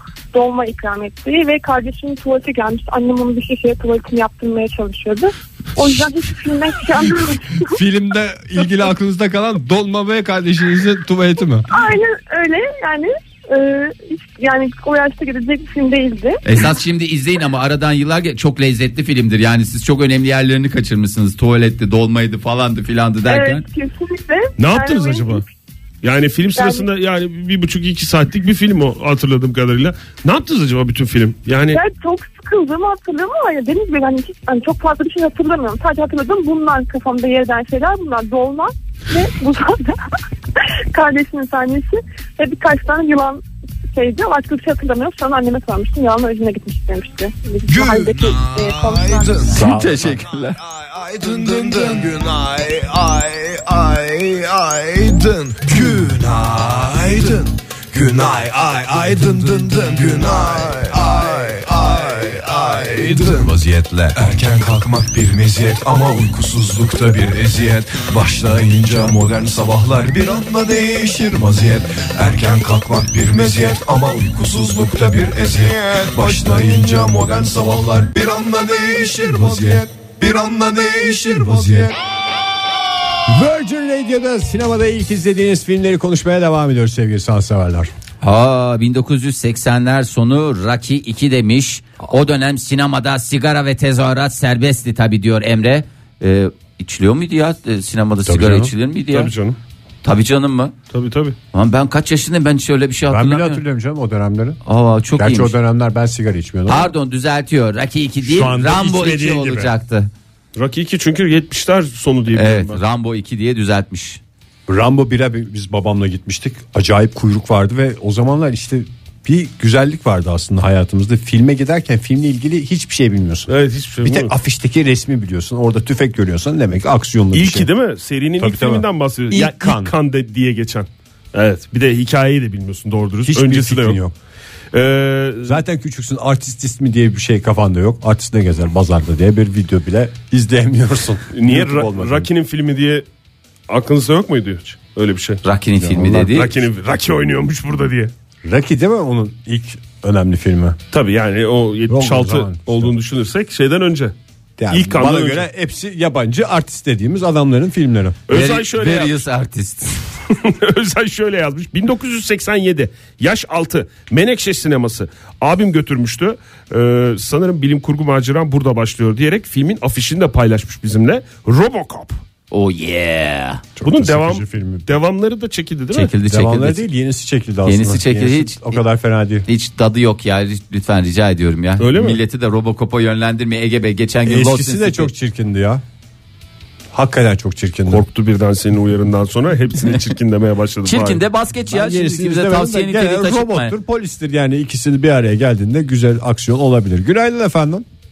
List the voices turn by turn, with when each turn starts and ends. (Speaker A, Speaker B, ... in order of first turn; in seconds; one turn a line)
Speaker A: 0.3-7.8
Speaker B: 7.6-11.7
Speaker A: 11.7-16.4
Speaker C: 16.4-23.6
Speaker A: 23.3-25.5
Speaker D: 24.6-25.4
Speaker D: 26.0-31.8
Speaker A: 26.5-26.9
Speaker A: 31.7-40.0
Speaker A: 40.9-49.5
Speaker E: 47.7-82.0
Speaker C: 49.5-50.6
Speaker B: 83.3-87.9
Speaker C: 88.2-99.3
Speaker B: 98.3-98.7
Speaker D: 99.1-99.6
Speaker C: 100.0-100.8
Speaker D: 100.9-101.4
Speaker C: 101.5-103.6
Speaker B: 103.1-104.6
Speaker C: 104.7-105.6
Speaker B: 105.2-106.9
Speaker C: 106.7-110.1
Speaker B: 108.2-109.7
Speaker D: 110.5-112.8
Speaker C: 112.3-114.2
Speaker B: 114.7-123.5
Speaker D: 123.5-124.3
Speaker B: 124.0-127.7
Speaker D: 127.3-134.0
Speaker B: 128.4-129.9
Speaker B: 133.2-134.1
Speaker D: 134.7-135.6
Speaker B: 135.5-142.3
Speaker D: 141.3-143.1
Speaker D: 143.7-145.4
Speaker C: 145.4-146.5
Speaker B: 145.8-146.2
Speaker D: 146.1-148.1
Speaker B: 148.4-150.8
Speaker D: 150.9-154.1
Speaker B: 151.9-152.9
Speaker B: 154.6-158.2
Speaker D: 154.7-155.5
Speaker D: 158.3-159.2
Speaker C: 158.3-160.1
Speaker D: 160.3-172.2
Speaker C: 172.5-173.6
Speaker B: 173.8-174.9
Speaker D: 173.8-176.1
Speaker C: 175.9-176.9
Speaker B: 176.2-179.5
Speaker C: 177.7-178.8
Speaker C: 179.5-185.1
Speaker D: 181.8-182.2
Speaker B: 184.2-185.8
Speaker B: 186.9-188.1
Speaker D: 187.9-191.2
Speaker C: 190.8-193.8
Speaker B: 191.7-197.8